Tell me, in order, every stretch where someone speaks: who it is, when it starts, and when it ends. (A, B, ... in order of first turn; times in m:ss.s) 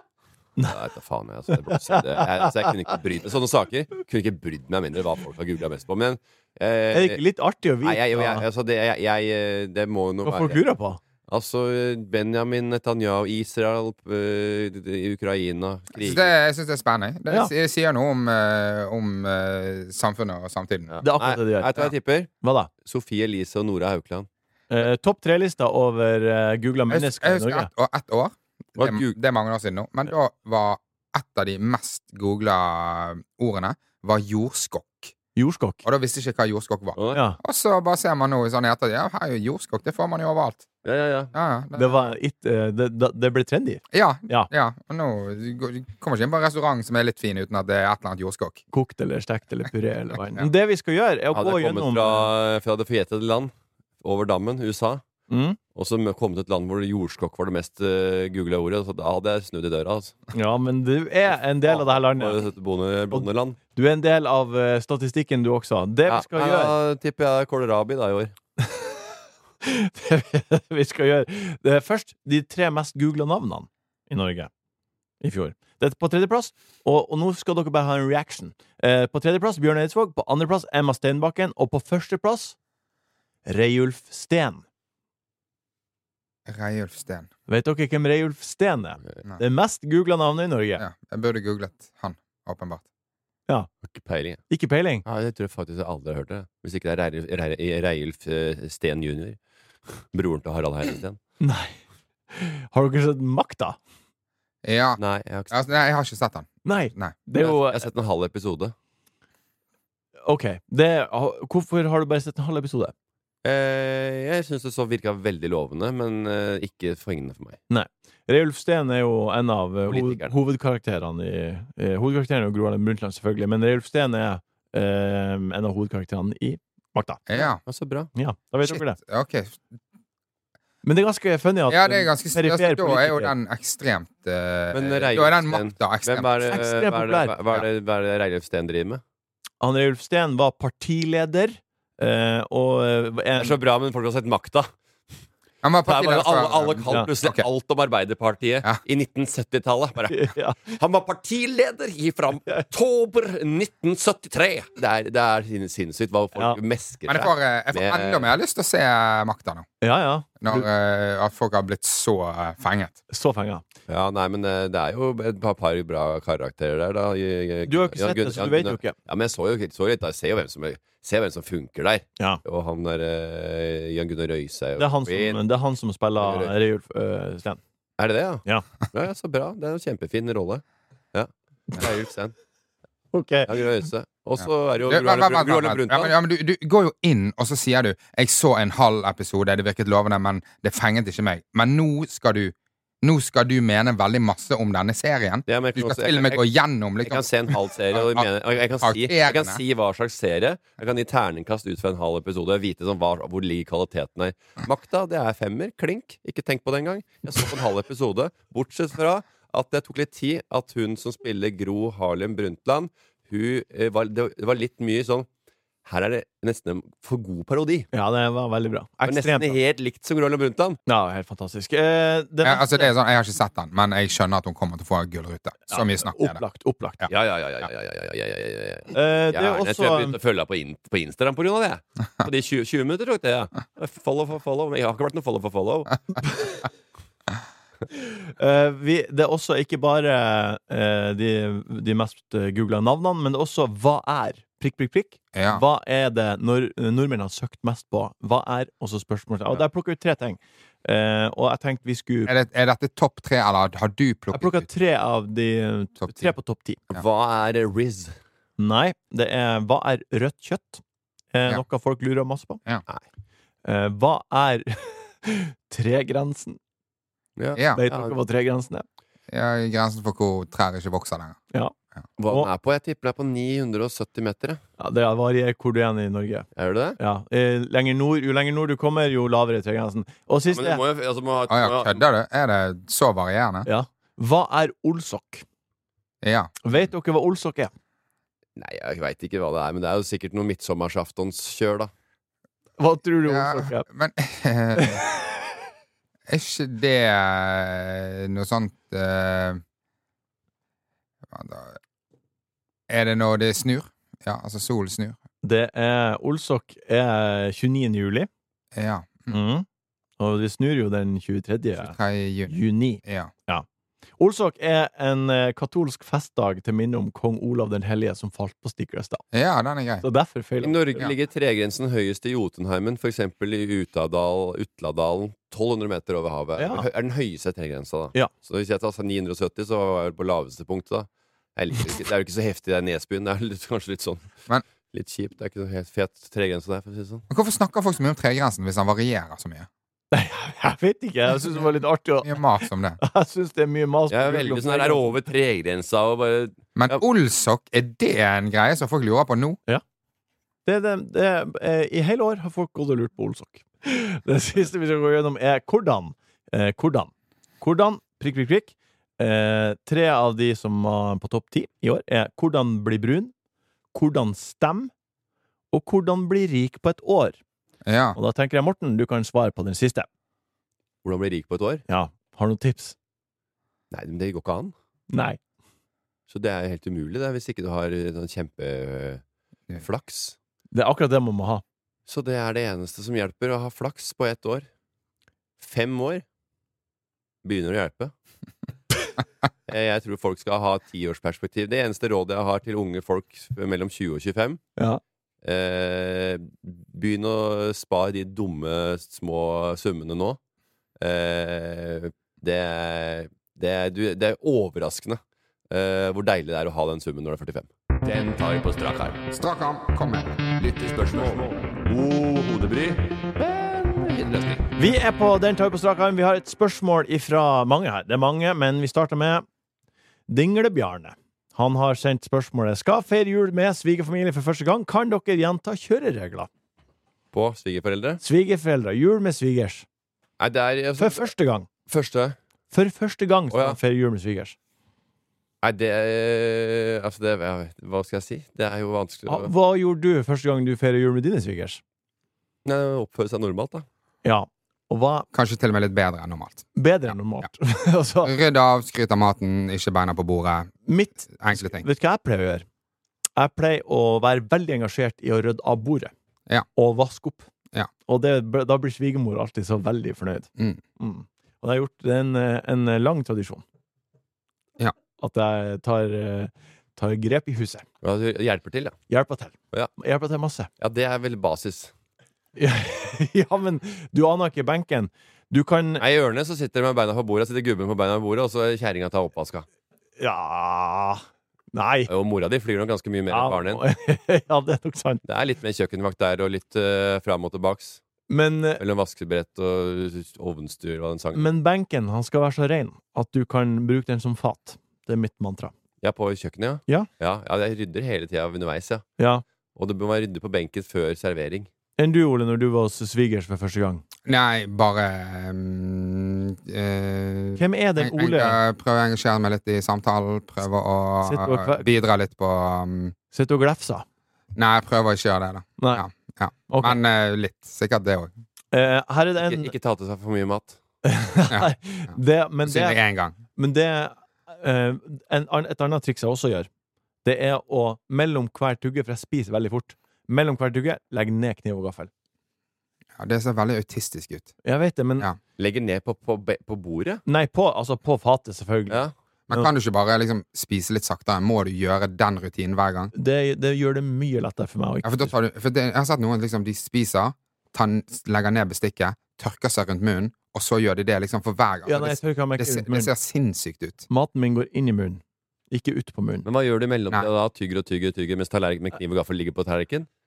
0:00.6-0:07.2 A
0:01.9-0:02.4 B
0:06.9-0:08.4 B
0:07.8-0:10.6 A
0:10.2-0:11.0 B
0:11.3-0:16.3 A
0:16.0-0:20.9 C
0:20.9-0:22.3 A
0:21.0-0:21.8 B
0:22.4-0:22.7 B
0:22.8-0:24.3 A
0:24.7-0:27.7 B
0:26.9-0:35.1 C
0:28.8-0:29.2 A
0:35.4-0:35.8 B
0:35.8-0:40.7 C
0:37.0-0:37.2 A
0:37.1-0:37.4 B
0:40.8-0:41.3 A
0:41.3-0:42.1 C
0:41.7-0:44.5 B
0:43.9-0:48.6 C
0:48.7-0:52.3 B
0:51.3-0:55.0 A
0:55.3-0:55.6 B
0:55.7-1:00.2 A
1:00.3-1:02.4 B
1:01.6-1:03.6 A
1:03.1-1:06.7 B
1:06.1-1:08.3 A
1:09.6-1:14.5 B
1:15.2-1:22.5 B
1:23.4-1:24.6 B
1:26.4-1:27.3 C
1:27.5-1:30.8 B
1:30.8-1:32.8 C
1:33.9-1:34.4 A
1:34.5-1:35.0 B
1:35.0-1:39.4 A
1:39.9-1:41.2 A
1:41.4-1:41.8 B
1:42.3-1:43.8 B
1:44.6-1:47.2 C
1:45.0-1:45.6 A
1:46.6-1:47.8 B
1:47.4-1:48.7 A
1:50.2-1:52.9 B
1:53.4-1:57.6 A
1:57.7-2:07.2 B
1:59.9-2:00.3 A
2:07.3-2:07.6 C
2:07.4-2:08.1 A
2:08.1-2:09.0 B
2:08.6-2:09.6 C
2:10.8-2:13.3 B
2:11.7-2:16.3 C
2:14.7-2:19.0 A
2:16.5-2:17.4 B
2:19.6-2:23.5 B
2:23.4-2:24.7 A
2:25.6-2:27.4 C
2:25.8-2:38.3 A
2:30.1-2:30.7 B
2:37.1-2:39.6 C
2:39.8-2:40.7 B
2:40.4-2:43.0 C
2:43.1-2:43.6 B
2:43.9-2:55.4 A
2:47.7-2:48.9 B
2:54.8-2:57.6 B
2:56.2-2:56.5 A
2:58.0-3:02.3 A
3:03.1-3:03.5 B
3:03.5-3:06.1 A
3:04.9-3:18.3 C
3:15.5-3:16.4 A
3:17.0-3:35.3 A
3:18.8-3:19.6 C
3:35.8-3:37.9 A
3:37.9-3:39.6 B
3:39.0-3:40.8 A
3:40.9-3:42.9 B
3:42.4-3:46.4 C
3:45.7-3:47.0 B
3:47.1-3:56.0 A
3:48.9-3:50.1 B
3:58.0-4:12.3 B
4:05.3-4:05.6 C
4:12.2-4:14.7 C
4:14.3-4:16.8 B
4:16.0-4:16.3 C
4:16.9-4:18.1 A
4:18.6-4:20.8 B
4:21.3-4:22.6 B
4:23.6-4:26.6 B
4:27.4-4:28.1 A
4:27.7-4:28.8 B
4:29.3-4:31.4 C
4:32.2-4:34.6 A
4:34.8-4:36.5 B
4:36.6-4:37.0 A
4:37.0-4:40.8 B
4:40.5-4:42.0 A
4:41.5-4:43.7 C
4:43.6-4:45.4 B
4:46.2-4:46.5 C
4:46.6-4:47.7 B
4:48.6-4:51.9 A
4:52.8-4:53.8 B
4:53.2-4:55.0 C
4:56.3-4:59.6 C
5:01.3-5:01.8 C
5:02.9-5:05.2 C
5:05.4-5:08.3 B
5:08.7-5:09.3 C
5:09.3-5:09.6 B
5:10.2-5:11.9 B
5:11.8-5:13.3 C
5:12.5-5:13.6 B
5:14.2-5:19.2 B
5:19.3-5:20.0 C
5:20.0-5:21.0 B
5:20.6-5:34.3 A
5:26.6-5:26.9 B
5:34.9-5:37.2 A
5:37.3-5:39.7 C
5:40.1-5:45.0 B
5:42.2-5:43.0 C
5:44.1-5:47.0 A
5:46.8-5:49.6 C
5:50.6-6:03.3 B
6:03.9-6:04.9 B
6:05.7-6:07.4 B
6:07.8-6:08.2 C
6:08.2-6:10.1 B
6:11.0-6:11.8 A
6:11.9-6:12.9 B
6:13.9-6:14.7 A
6:15.1-6:15.4 B
6:16.3-6:19.2 A
6:19.8-6:20.4 A
6:20.7-6:21.6 B
6:22.1-6:24.6 A
6:25.6-6:26.2 A
6:27.4-6:28.1 A
6:29.7-6:34.6 A
6:35.4-6:40.4 A
6:41.0-6:45.2 A
6:45.7-6:49.2 A
6:49.3-6:50.4 C
6:50.6-6:54.6 A
6:54.8-6:59.4 B
7:00.3-7:06.5 B
7:07.3-7:08.2 A
7:08.2-7:09.8 B
7:10.4-7:11.3 A
7:11.0-7:11.7 B
7:11.9-7:12.4 A
7:12.7-7:14.6 B
7:13.5-7:13.8 A
7:15.6-7:19.5 A
7:19.3-7:21.8 B
7:22.6-7:23.8 A
7:24.2-7:25.3 B
7:25.3-7:26.7 C
7:26.8-7:28.3 B
7:28.2-7:30.7 C
7:30.8-7:32.6 B
7:31.3-7:31.8 C
7:33.4-7:36.1 B
7:36.8-7:37.5 B
7:38.0-7:43.6 B
7:45.2-7:47.8 B
7:48.0-7:49.0 A
7:49.1-7:50.7 B
7:50.8-7:51.9 A
7:52.6-7:56.0 B
7:56.0-7:59.6 A
8:00.2-8:01.2 B
8:01.7-8:02.1 B
8:02.1-8:03.8 A
8:03.3-8:05.2 B
8:05.2-8:08.0 A
8:08.3-8:08.8 B
8:08.8-8:11.5 A
8:11.3-8:15.7 B
8:16.0-8:19.0 A
8:19.2-8:19.4 B
8:19.8-8:21.7 A
8:22.0-8:24.0 B
8:24.2-8:33.1 C
8:27.6-8:28.6 B
8:31.2-8:31.9 B
8:33.3-8:34.0 B
8:34.5-8:38.3 C
8:35.8-8:36.0 B
8:36.7-8:37.0 B
8:38.7-8:39.7 B
8:39.4-8:40.8 A
8:41.0-8:43.0 B
8:42.6-8:43.4 C
8:43.5-8:46.7 B
8:47.2-8:52.1 B
8:53.2-8:54.5 C
8:54.6-8:55.3 B
8:55.6-8:57.2 A
8:57.2-8:59.0 B
8:59.5-9:03.1 C
9:03.1-9:05.3 B
9:05.0-9:14.0 C
9:11.8-9:13.1 B
9:14.1-9:16.4 B
9:16.4-9:20.1 A